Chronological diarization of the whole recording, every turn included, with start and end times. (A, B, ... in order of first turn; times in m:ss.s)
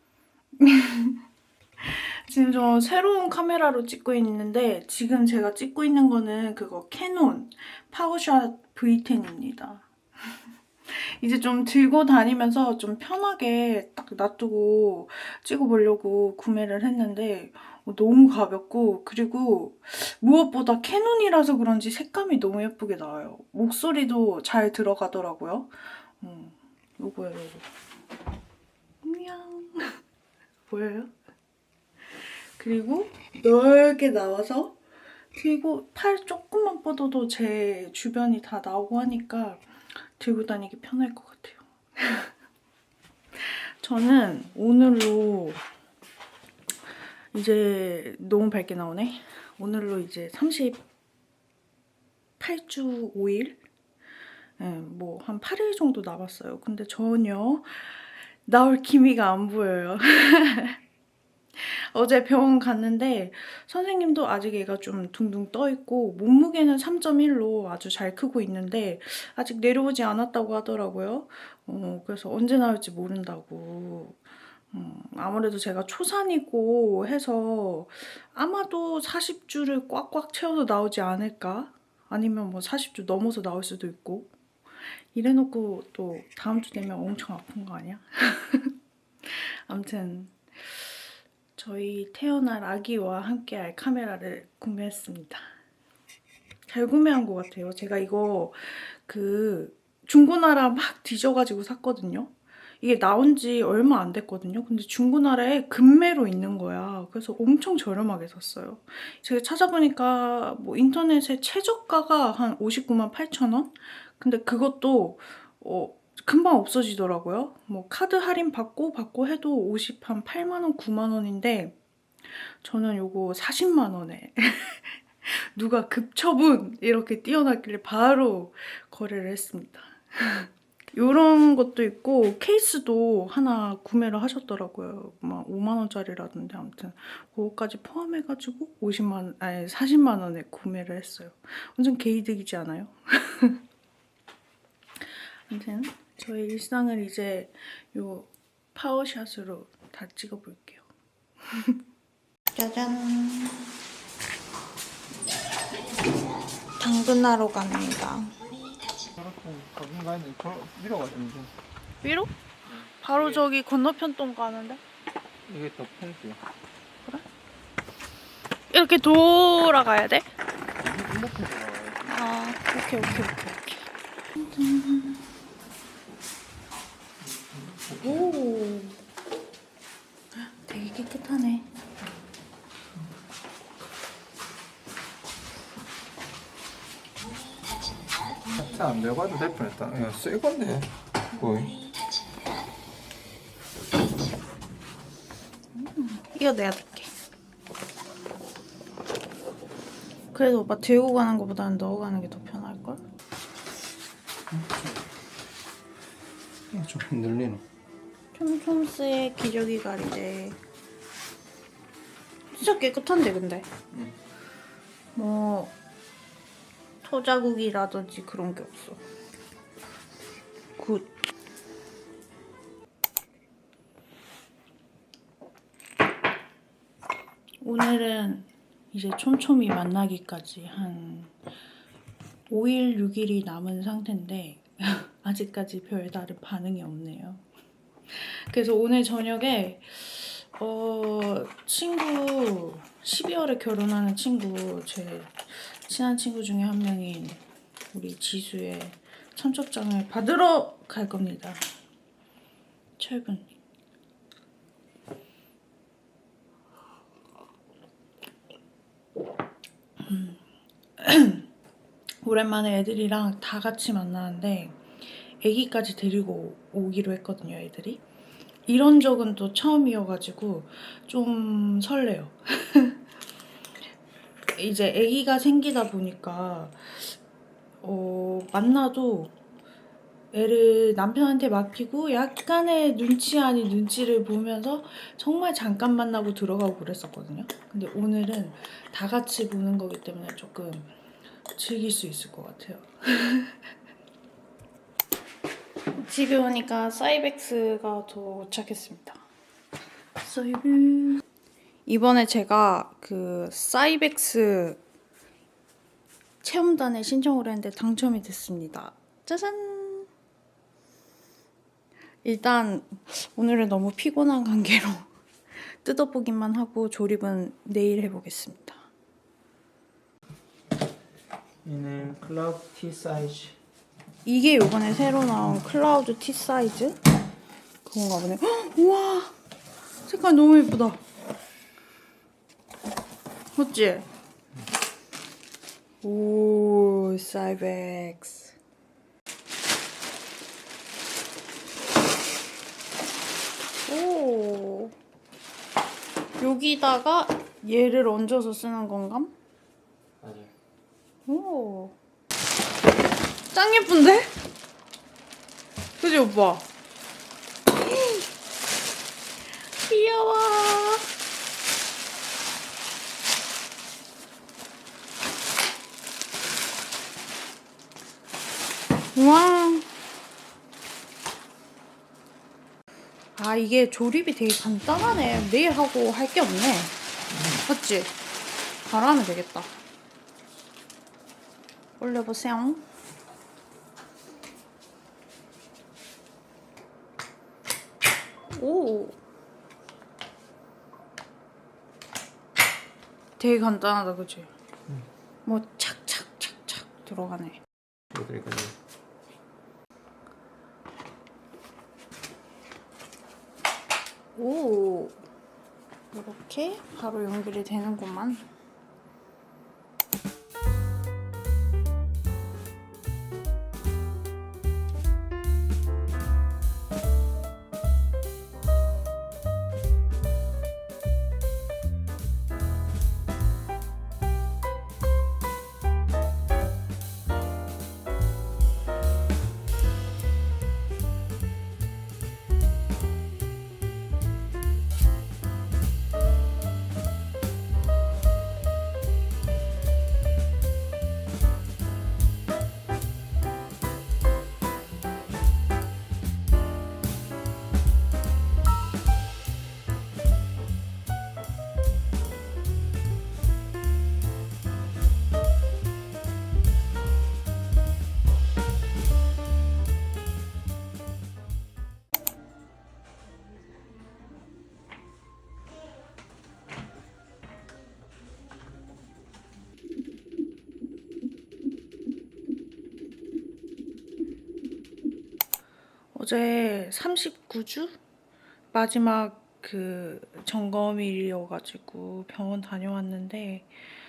0:00.6-0:01.2 A
0:01.8-0:09.9 A
0:10.9-0:27.7 A
0:29.0-0:30.0 A
0:30.7-0:31.1 A
0:32.6-0:34.8 A
0:35.3-0:42.3 A
0:43.4-0:45.6 A
0:47.3-0:50.8 A
0:52.4-0:53.6 A
0:54.6-1:00.8 A
1:01.6-1:24.3 A
1:25.1-1:35.5 A
1:36.7-2:01.8 A
2:02.3-2:23.6 A
2:25.0-2:30.9 A
2:31.5-2:31.8 A
2:32.5-2:33.7 A
2:36.8-2:38.4 A
2:39.2-2:41.5 B
2:42.0-2:44.8 A
2:45.5-2:46.4 B
2:48.7-2:50.3 A
2:50.8-2:52.1 B
2:52.1-2:55.3 A
2:57.2-2:58.4 B
2:58.0-2:59.0 A
3:00.3-3:01.7 A
3:08.5-3:11.8 B
3:15.7-3:17.1 A
3:20.3-3:23.0 A
3:24.5-3:24.9 B
3:26.7-3:27.6 B
3:28.3-3:30.6 A
3:32.5-3:33.7 A
3:35.2-3:35.8 A
3:37.0-3:39.0 A
3:40.8-3:41.1 A
3:47.6-3:51.4 A
3:52.5-3:57.4 A
3:58.1-4:11.7 A
4:13.0-4:13.5 A
4:20.0-4:20.4 A
4:21.0-4:21.5 A
4:22.2-4:28.0 A
4:28.7-4:33.0 A
4:34.6-4:37.2 A
4:37.8-4:39.4 A
4:40.3-4:50.9 A
4:51.5-4:53.7 A
4:56.0-4:59.2 A
5:00.2-5:01.2 A
5:01.9-5:04.8 A
5:06.4-5:10.1 A
5:12.2-5:15.1 A
5:15.6-5:18.8 A
5:21.6-5:23.5 C
5:24.2-5:27.0 A
5:27.8-5:29.3 A
5:30.1-5:31.0 A
5:33.6-5:34.1 A
5:36.0-5:38.6 A
5:43.9-5:44.9 A
5:46.4-5:49.3 A
5:50.2-5:50.5 C
5:51.2-5:52.0 A
5:53.5-5:54.3 A
5:56.0-5:56.6 A
5:57.7-5:58.3 A
5:59.8-6:01.1 A
6:09.2-6:09.9 A
6:13.4-6:18.1 A
6:18.9-6:19.7 A
6:22.0-6:22.8 A
6:28.5-6:29.2 A
6:33.4-6:34.5 A
6:35.4-6:37.6 A
6:38.1-6:38.8 C
6:44.4-6:45.2 A
6:46.1-6:48.4 A
7:56.1-7:57.9 A
7:58.7-8:03.7 A